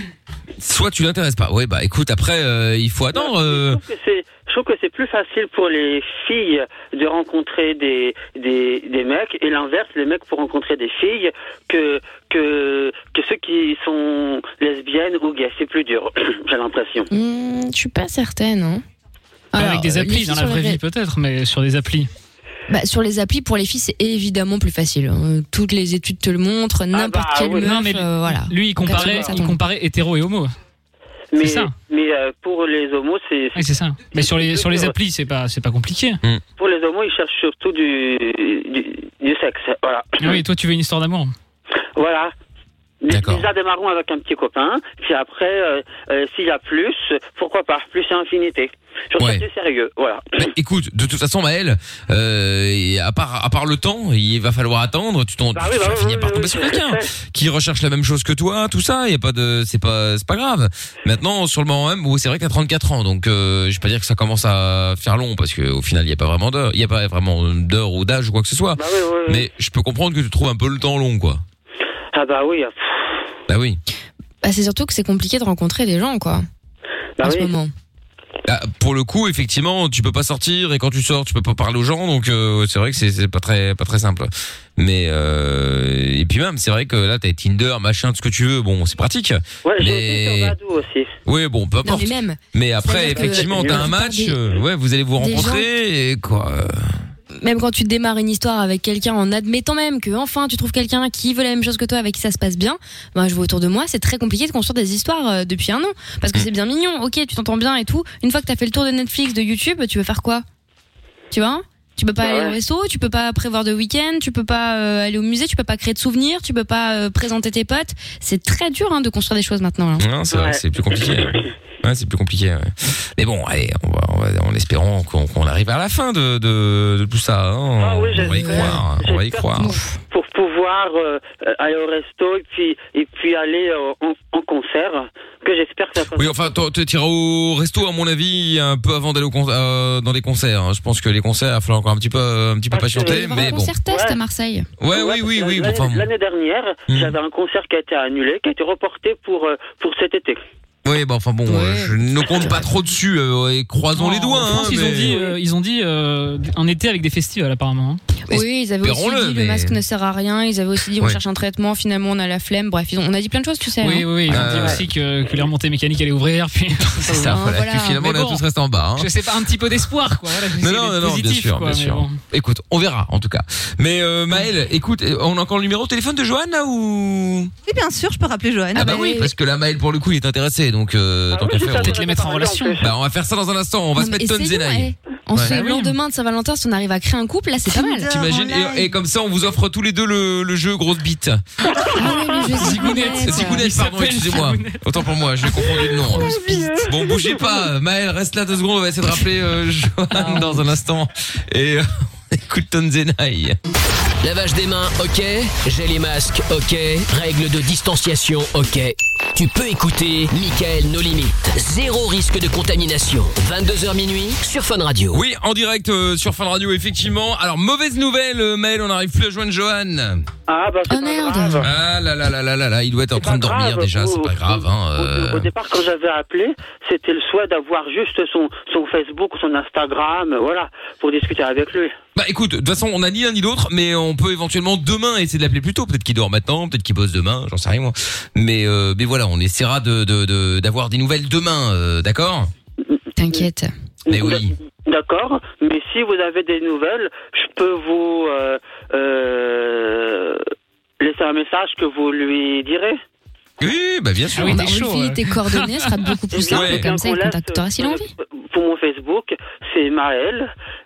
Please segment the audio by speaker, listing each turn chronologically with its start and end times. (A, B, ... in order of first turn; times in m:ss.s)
0:00.6-0:03.8 A
0:03.1-0:17.1 B
0:17.1-0:18.8 C
0:19.5-0:20.8 C
0:19.6-0:22.1 D
0:22.7-0:29.6 C
0:26.9-0:27.8 B
0:27.6-0:30.5 D
0:31.3-0:34.9 B
0:31.4-0:31.7 D
0:33.6-0:36.2 D
0:36.6-0:40.4 B
0:40.2-0:41.3 D
0:42.0-0:42.3 B
0:43.0-0:50.5 B
0:43.1-0:43.5 A
0:49.2-0:49.4 A
0:50.4-1:11.4 A
0:55.5-0:57.1 B
1:08.8-1:09.5 B
1:12.1-1:13.3 B
1:13.5-1:13.8 A
1:14.4-1:16.4 C
1:17.2-1:17.5 B
1:17.2-1:17.7 C
1:18.5-1:30.6 A
1:29.6-1:31.2 B
1:31.3-1:37.0 A
1:31.8-1:34.4 C
1:33.1-1:33.9 B
1:35.2-1:35.7 C
1:37.4-1:50.4 C
1:51.3-2:00.1 C
1:52.2-1:52.6 B
2:00.0-2:09.8 A
2:00.3-2:01.5 B
2:07.8-2:16.6 B
2:08.3-2:08.8 C
2:09.6-2:09.9 C
2:16.1-2:23.8 A
2:22.7-2:24.2 B
2:23.0-2:24.7 C
2:24.8-2:26.1 A
2:24.9-2:30.4 B
2:26.9-2:27.2 A
2:30.8-2:35.2 A
2:31.5-2:32.7 C
2:34.0-2:38.0 D
2:38.3-2:44.5 C
2:38.3-2:39.8 A
2:43.8-2:47.4 D
2:44.3-2:44.8 A
2:47.0-2:49.1 A
2:47.3-2:48.0 C
2:48.0-2:48.4 D
2:49.0-2:52.2 D
2:50.6-2:57.5 A
2:57.7-2:59.1 E
2:58.7-2:59.3 C
2:58.8-3:02.0 A
3:01.3-3:02.9 B
3:01.6-3:02.8 D
3:02.8-3:05.6 A
3:04.0-3:08.1 C
3:05.4-3:06.0 D
3:07.7-3:08.9 E
3:08.1-3:11.4 A
3:11.9-3:13.6 C
3:12.5-3:14.9 D
3:12.6-3:23.6 A
3:15.5-3:15.7 D
3:16.2-3:16.8 C
3:20.2-3:20.6 D
3:24.2-3:35.2 F
3:35.1-3:40.2 A
3:40.5-3:41.7 B
3:40.9-3:41.7 C
3:41.6-3:45.5 A
3:43.2-3:51.9 B
3:52.2-4:02.5 A
4:03.2-4:03.7 C
4:04.1-4:10.4 B
4:04.1-4:04.5 A
4:11.0-4:13.0 B
4:13.6-4:14.6 A
4:14.4-4:16.1 D
4:14.5-4:18.1 C
4:16.3-4:20.5 B
4:16.5-4:16.9 A